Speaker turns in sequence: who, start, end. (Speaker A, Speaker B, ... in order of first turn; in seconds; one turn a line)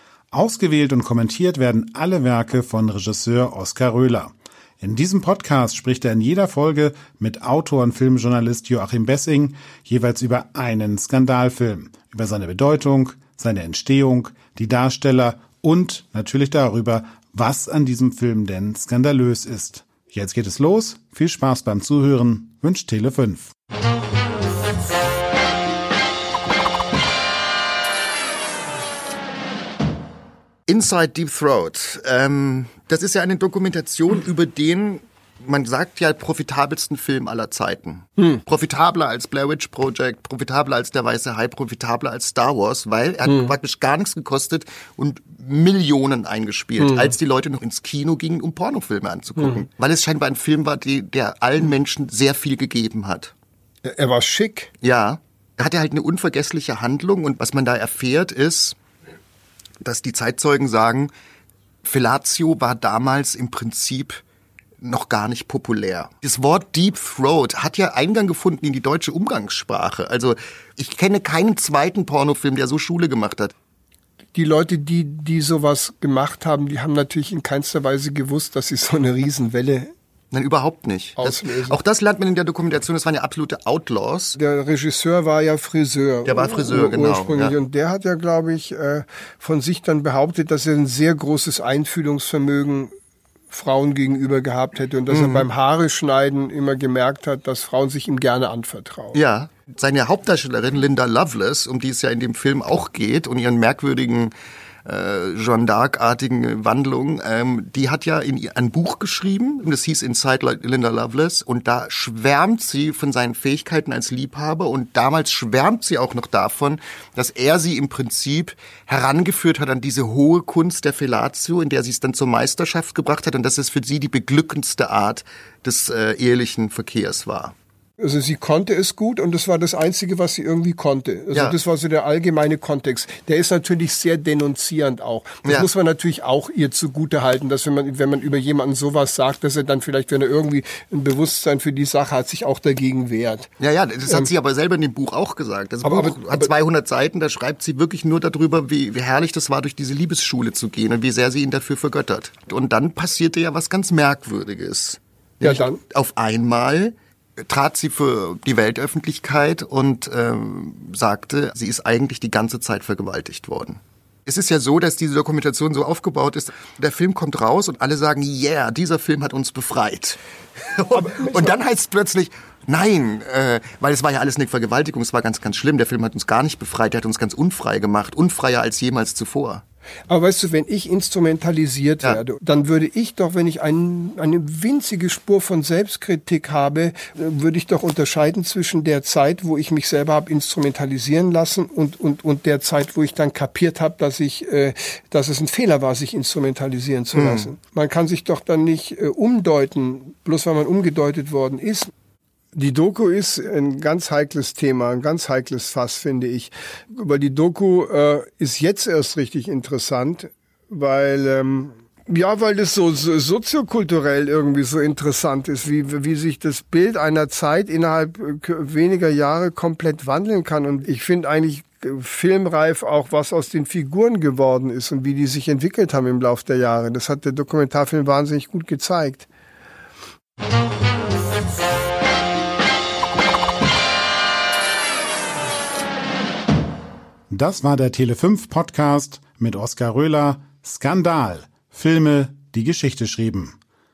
Speaker A: 0.3-23.5
Speaker B: 30.7-53.3
Speaker C: 43.3-43.5
Speaker C: 46.8-47.1
Speaker C: 49.4-49.6
Speaker C: 53.8-54.7
Speaker B: 54.8-58.8
Speaker B: 59.8-61.1
Speaker B: 61.8-64.2
Speaker B: 64.8-73.5
Speaker C: 74.3-79.9
Speaker B: 80.3-84.4
Speaker C: 81.2-81.8
Speaker C: 84.4-92.9
Speaker B: 86.2-87.5
Speaker C: 93.5-99.2
Speaker B: 95.1-95.5
Speaker B: 99.1-104.3
Speaker B: 104.8-127.5
Speaker C: 128.0-143.5
Speaker B: 131.3-131.6
Speaker B: 143.6-156.9
Speaker C: 145.8-146.5
Speaker C: 155.4-155.8
Speaker B: 157.5-179.6
Speaker C: 170.9-171.5
Speaker C: 180.1-201.9
Speaker B: 197.1-197.5
Speaker C: 202.5-229.3
Speaker A: 237.3-243.5